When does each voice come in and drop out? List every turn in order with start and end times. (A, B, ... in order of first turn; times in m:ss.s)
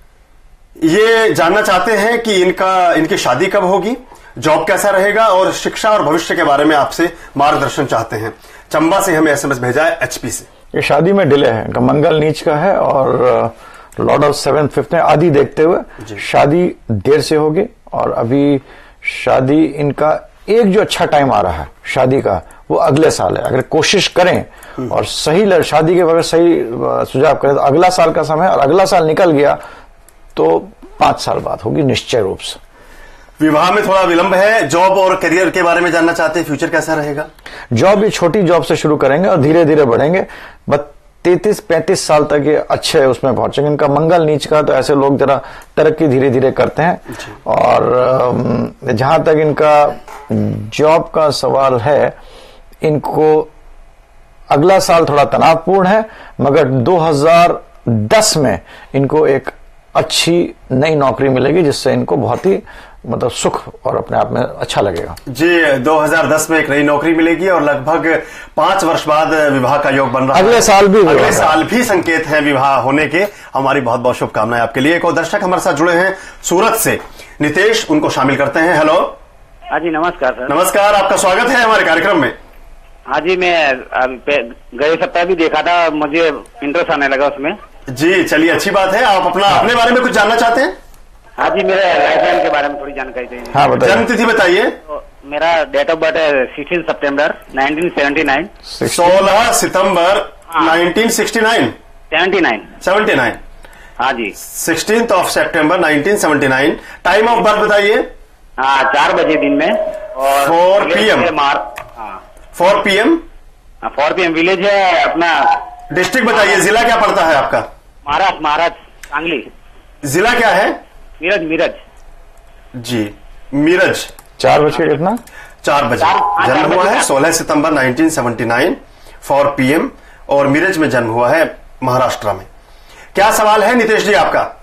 0:00.8-0:10.5 A
0:10.7-0:29.6 B
0:30.4-0:32.6 B
0:33.4-0:37.3 A
0:37.7-0:52.2 B
0:52.8-0:53.5 B
0:54.5-1:05.2 B
1:05.3-1:19.2 A
1:10.3-1:11.6 B
1:19.7-1:20.5 C
1:20.5-1:22.4 A
1:23.1-1:27.6 C
1:27.9-1:30.8 A
1:31.4-1:33.8 C
1:33.5-1:34.1 B
1:33.8-1:34.8 A
1:34.9-1:38.5 C
1:38.7-1:39.3 B
1:38.8-1:41.8 A
1:40.5-1:40.8 C
1:42.1-1:42.7 C
1:42.8-1:43.4 A
1:44.0-1:44.4 C
1:44.4-1:48.1 A
1:48.6-1:52.2 C
1:50.3-1:51.3 A
1:52.6-1:53.2 A
1:53.8-1:55.6 C
1:55.9-1:57.7 A
1:58.0-1:59.5 C
2:00.0-2:00.8 A
2:01.2-2:01.8 C
2:02.8-2:04.1 A
2:04.4-2:05.2 B
2:05.6-2:12.5 A
2:06.0-2:07.1 C
2:13.1-2:14.5 A